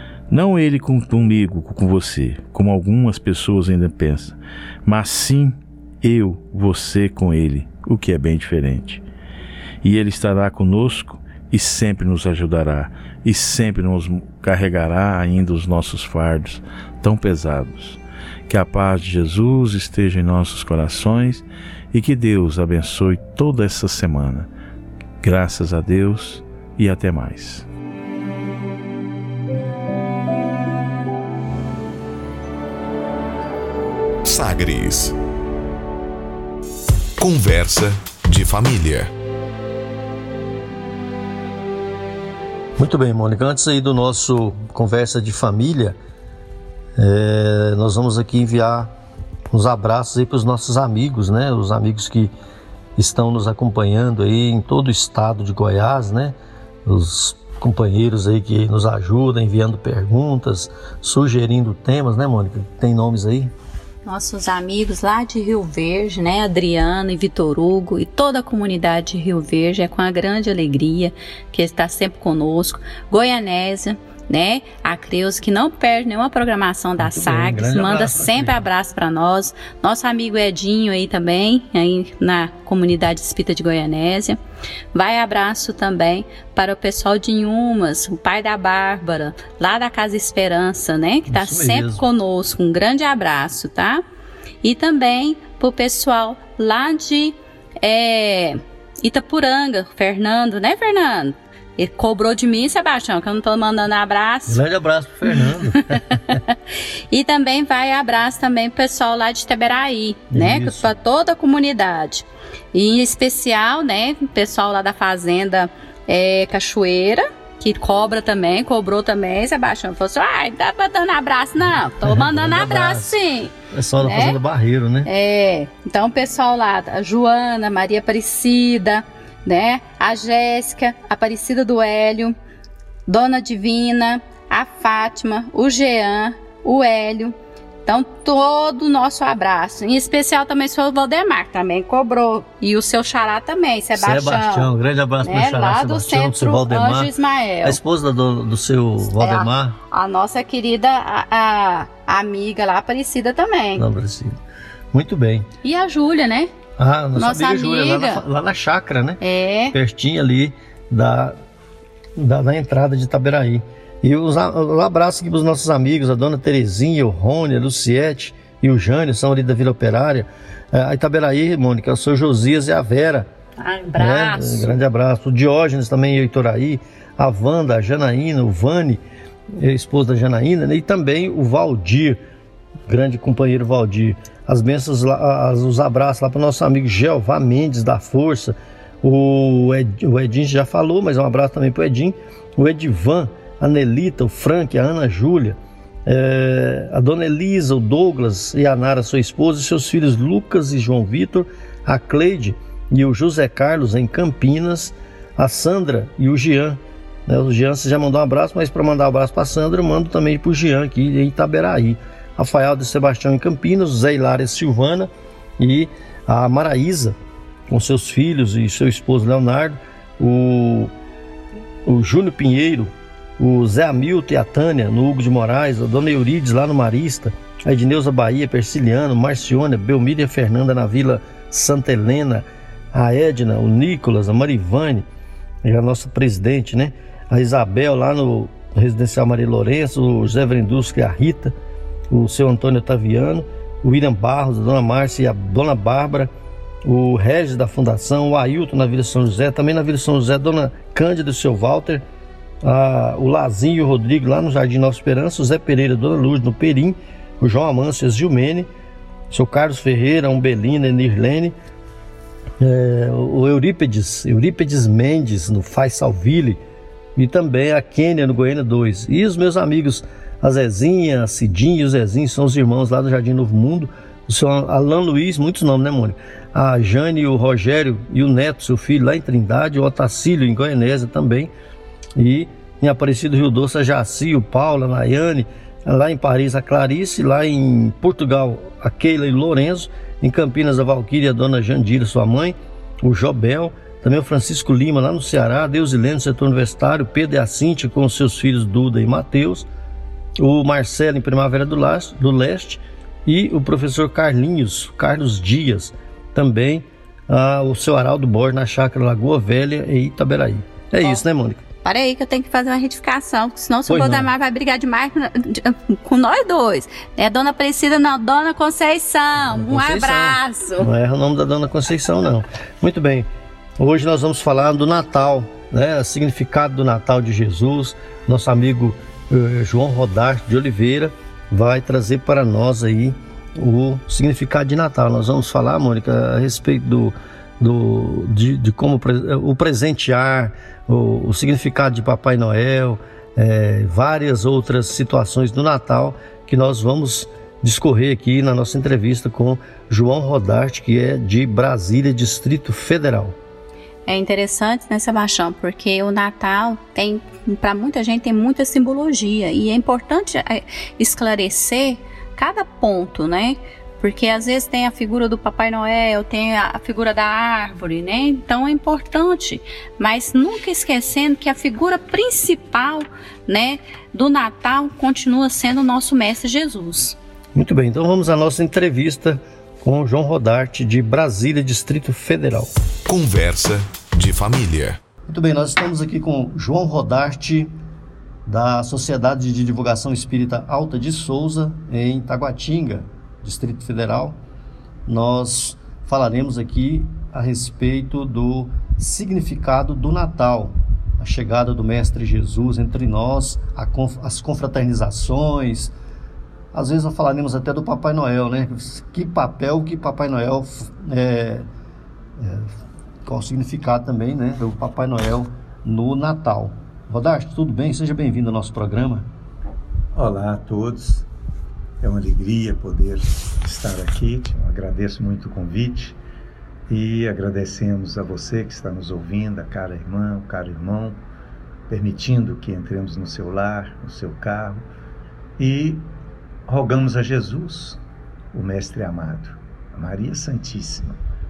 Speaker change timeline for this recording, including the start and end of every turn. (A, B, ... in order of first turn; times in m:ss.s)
0:00.3-0:09.0 A
0:09.8-0:24.5 A
0:25.2-0:27.7 A
0:34.2-0:35.1 B
0:37.2-0:39.1 B
0:42.8-0:46.0 C
0:47.0-0:48.9 C
0:49.5-0:52.3 C
0:53.0-0:56.3 C
0:56.8-1:03.5 C
1:04.0-1:24.4 D
1:17.0-1:18.6 C
1:24.9-1:34.0 D
1:31.3-1:32.0 C
1:34.6-1:44.6 D
1:44.5-1:46.4 C
1:45.2-2:04.4 D
1:50.3-1:50.9 C
2:02.0-2:03.2 C
2:03.7-2:05.1 C
2:05.0-2:12.3 D
2:13.1-2:24.7 D
2:23.9-2:27.1 C
2:25.2-2:27.8 D
2:27.6-2:29.8 C
2:29.2-2:33.8 D
2:33.7-2:34.4 C
2:34.9-2:35.4 C
2:35.6-2:36.5 D
2:36.8-2:39.2 C
2:37.1-2:38.2 D
2:39.2-2:39.7 D
2:39.7-2:41.4 C
2:42.2-2:53.3 C
2:53.6-2:54.7 D
2:53.9-2:59.0 C
2:59.6-3:02.2 C
3:02.9-3:37.2 C
3:37.7-3:40.9 C
3:41.8-3:55.0 C
3:55.6-4:01.5 C
4:02.1-4:06.3 C
4:06.8-4:12.0 C
4:12.6-4:18.7 C
4:19.3-4:21.5 C
4:22.6-4:26.6 C
4:27.2-4:41.5 C
4:42.2-4:59.7 C
5:00.4-5:11.6 C
5:11.8-5:20.9 D
5:13.9-5:14.3 C
5:19.5-5:23.3 C
5:23.8-5:53.4 C
5:54.0-6:17.2 D
6:17.5-6:22.7 C
6:23.1-6:25.0 B
6:25.3-6:27.7 C
6:28.4-6:34.4 C
6:35.1-6:45.9 C
6:46.7-6:51.7 C
6:52.4-6:52.7 C
6:53.2-6:59.2 C
7:00.1-7:01.2 E
7:02.0-7:06.2 E
7:06.9-7:11.2 E
7:11.9-7:14.8 E
7:15.6-7:16.0 E
7:16.7-7:18.0 E
7:18.5-7:21.2 E